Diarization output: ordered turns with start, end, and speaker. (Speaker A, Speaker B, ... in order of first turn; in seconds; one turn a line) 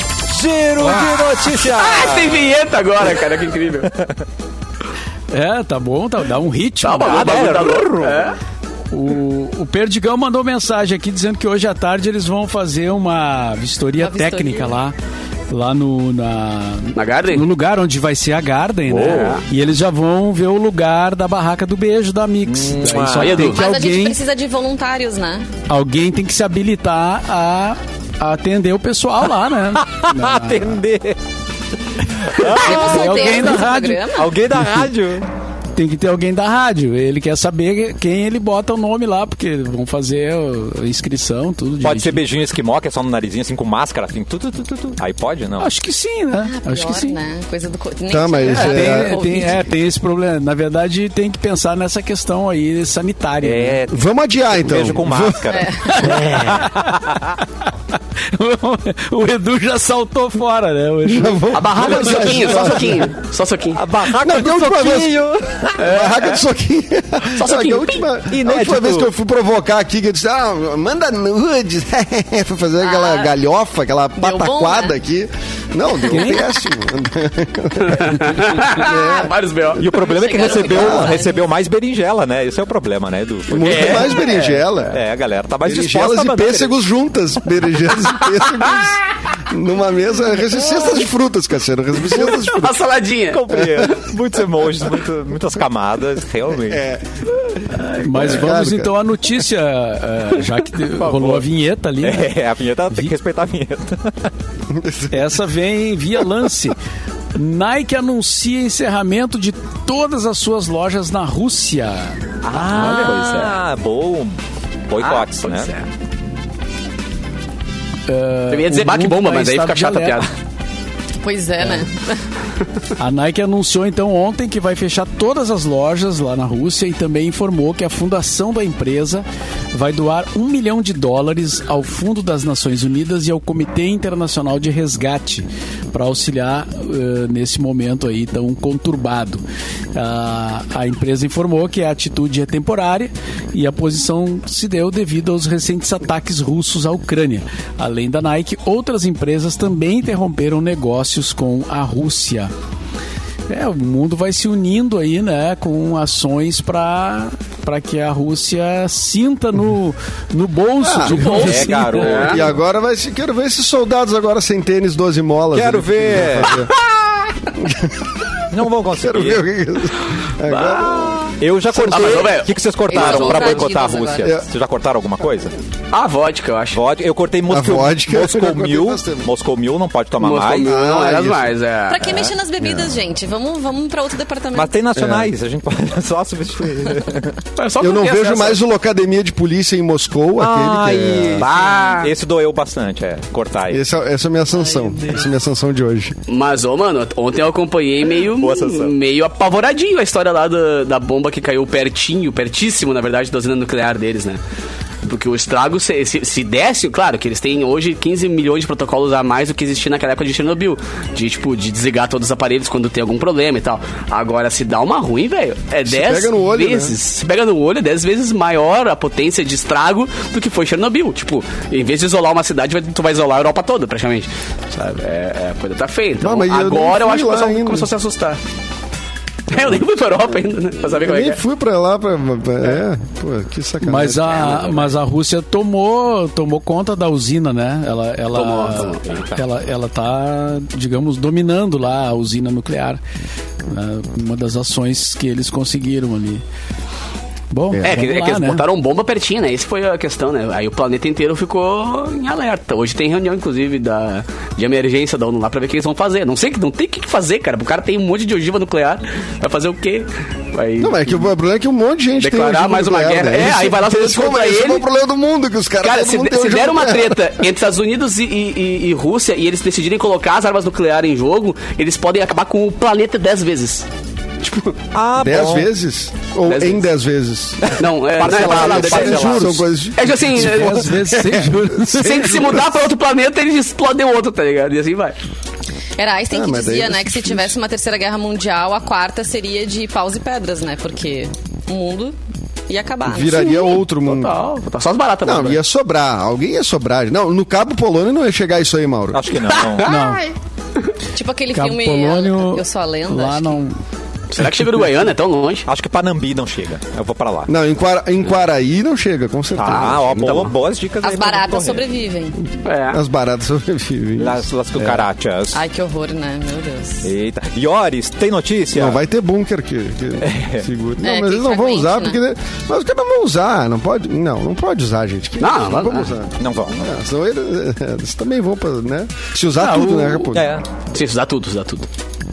Speaker A: 0.3-2.4
Speaker B: 1.6-3.9
Speaker C: 5.3-7.5
Speaker B: 6.8-8.4
Speaker A: 7.0-8.3
Speaker C: 8.9-15.0
Speaker D: 14.0-14.8
Speaker C: 15.5-24.2
Speaker B: 16.9-17.4
Speaker B: 18.9-19.4
Speaker A: 19.1-19.4
Speaker A: 22.5-23.5
Speaker B: 23.1-23.7
Speaker D: 23.4-25.5
Speaker C: 25.7-30.8
Speaker A: 29.8-31.2
Speaker A: 32.0-35.3
Speaker C: 32.4-34.1
Speaker D: 32.5-34.4
Speaker C: 35.8-42.2
Speaker A: 41.8-45.7
Speaker C: 45.6-47.2
Speaker D: 46.4-49.7
Speaker E: 48.1-49.2
Speaker C: 48.5-53.8
Speaker A: 53.4-57.4
Speaker E: 53.9-55.5
Speaker D: 55.5-56.1
Speaker C: 55.9-57.0
Speaker C: 58.3-61.8
Speaker E: 61.1-63.1
Speaker B: 61.5-63.8
Speaker A: 63.8-65.8
Speaker E: 64.2-65.2
Speaker E: 65.8-79.3
Speaker B: 65.8-66.4
Speaker B: 67.3-68.1
Speaker A: 68.3-69.1
Speaker D: 72.8-73.3
Speaker D: 74.2-75.0
Speaker C: 76.1-76.5
Speaker B: 77.8-79.9
Speaker A: 79.8-84.3
Speaker D: 80.0-81.4
Speaker E: 80.7-81.2
Speaker E: 83.5-85.0
Speaker B: 83.6-84.7
Speaker A: 84.9-86.7
Speaker E: 85.7-92.8
Speaker B: 92.0-94.0
Speaker A: 93.3-96.9
Speaker E: 96.7-97.0
Speaker C: 97.8-102.3
Speaker E: 98.1-98.9
Speaker A: 101.0-101.5
Speaker A: 102.0-104.3
Speaker E: 104.7-105.3
Speaker C: 105.1-106.8
Speaker C: 107.3-112.2
Speaker A: 112.4-114.4
Speaker B: 112.5-113.6
Speaker A: 114.9-115.7
Speaker B: 115.0-115.9
Speaker C: 118.1-120.2
Speaker B: 118.5-120.3
Speaker D: 121.2-122.2
Speaker C: 123.0-139.4
Speaker C: 139.9-152.5
Speaker C: 153.5-162.3
Speaker E: 160.8-161.2
Speaker B: 161.1-162.4
Speaker A: 161.3-162.5
Speaker E: 162.2-166.7
Speaker A: 165.5-167.1
Speaker E: 167.6-168.0
Speaker A: 168.5-169.4
Speaker E: 168.9-171.2
Speaker B: 170.5-171.1
Speaker A: 171.0-175.5
Speaker E: 171.7-172.2
Speaker B: 171.8-173.8
Speaker D: 172.9-174.4
Speaker B: 175.9-176.8
Speaker A: 176.7-180.8
Speaker E: 177.5-179.3
Speaker B: 180.2-182.3
Speaker E: 180.6-181.5
Speaker D: 181.9-184.8
Speaker E: 182.6-182.9
Speaker A: 184.5-187.4
Speaker E: 184.9-185.3
Speaker B: 187.6-188.6
Speaker E: 187.8-191.5
Speaker A: 190.4-193.8
Speaker B: 191.4-192.1
Speaker E: 193.7-196.2
Speaker B: 196.3-204.4
Speaker A: 198.3-198.9
Speaker B: 205.1-228.4
Speaker E: 215.9-217.0
Speaker E: 226.2-227.9
Speaker B: 229.5-231.4
Speaker E: 231.0-234.6
Speaker C: 233.8-243.0
Speaker B: 238.3-239.3
Speaker C: 243.7-246.4
Speaker C: 247.5-248.6
Speaker E: 247.7-248.0
Speaker B: 247.8-261.3
Speaker E: 260.8-267.3
Speaker B: 262.2-264.9
Speaker B: 265.8-273.9
Speaker B: 274.4-274.8
Speaker A: 274.9-275.7
Speaker E: 275.2-282.7
Speaker B: 276.5-276.9
Speaker A: 277.6-279.7
Speaker B: 277.8-280.9
Speaker C: 280.3-282.5
Speaker B: 281.9-285.2
Speaker D: 286.0-292.2
Speaker E: 286.3-287.6
Speaker D: 292.7-293.8
Speaker E: 293.1-294.4
Speaker B: 293.6-295.6
Speaker E: 295.2-299.2
Speaker A: 299.1-300.0
Speaker B: 299.5-300.1
Speaker C: 299.8-300.3
Speaker D: 301.1-303.6
Speaker C: 301.5-303.8
Speaker B: 304.3-305.7
Speaker A: 305.7-307.5
Speaker E: 307.5-310.5
Speaker A: 309.6-311.8
Speaker B: 309.6-310.4
Speaker D: 311.0-312.4
Speaker B: 312.6-313.0
Speaker E: 312.9-315.0
Speaker A: 314.2-315.6
Speaker D: 315.5-317.1
Speaker A: 317.0-319.0
Speaker E: 318.7-330.6
Speaker A: 320.2-320.7
Speaker D: 321.0-322.2
Speaker B: 325.4-326.2
Speaker A: 326.4-326.9
Speaker C: 329.6-330.3
Speaker A: 330.3-330.6
Speaker B: 330.9-331.9